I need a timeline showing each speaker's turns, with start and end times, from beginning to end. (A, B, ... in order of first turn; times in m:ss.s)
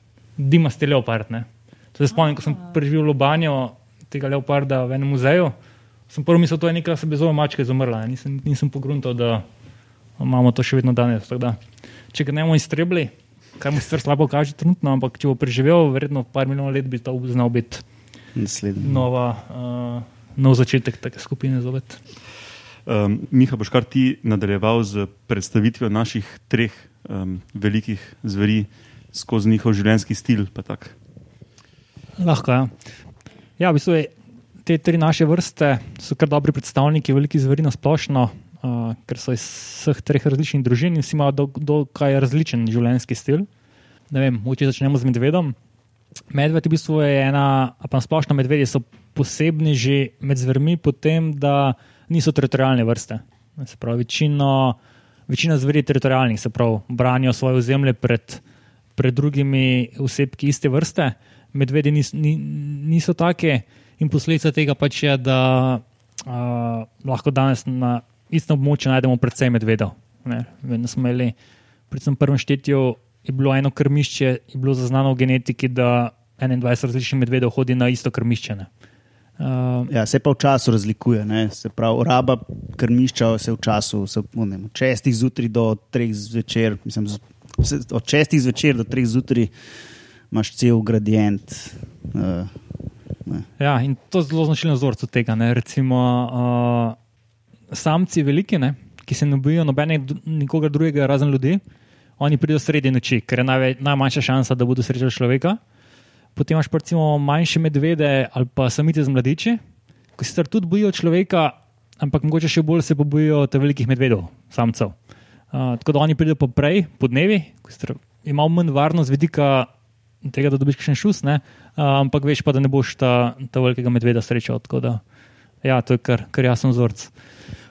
0:00.4-0:05.5 A
0:06.1-0:09.4 A
0:10.2-0:11.6 A
0:12.1-0:17.8 A
0:18.4-0:19.1 B
0:18.8-0:22.0 A
0:22.9-0:31.0 C
0:32.2-0:32.7 A
0:33.6-0:34.1 A
0:34.6-0:43.5 A
0:44.1-0:45.6 A
0:46.3-0:54.8 A
0:55.3-0:58.4 A
0:59.0-1:11.4 A
1:11.9-1:18.7 A
1:19.4-1:19.9 A
1:19.9-1:29.5 B
1:30.3-1:32.6 B
1:33.6-1:37.0 A
1:37.7-1:41.6 A
1:42.2-1:45.6 A
1:46.4-1:49.6 A
1:50.2-1:55.0 A
1:55.5-1:59.7 A
2:00.2-2:05.0 A
2:05.6-2:07.1 A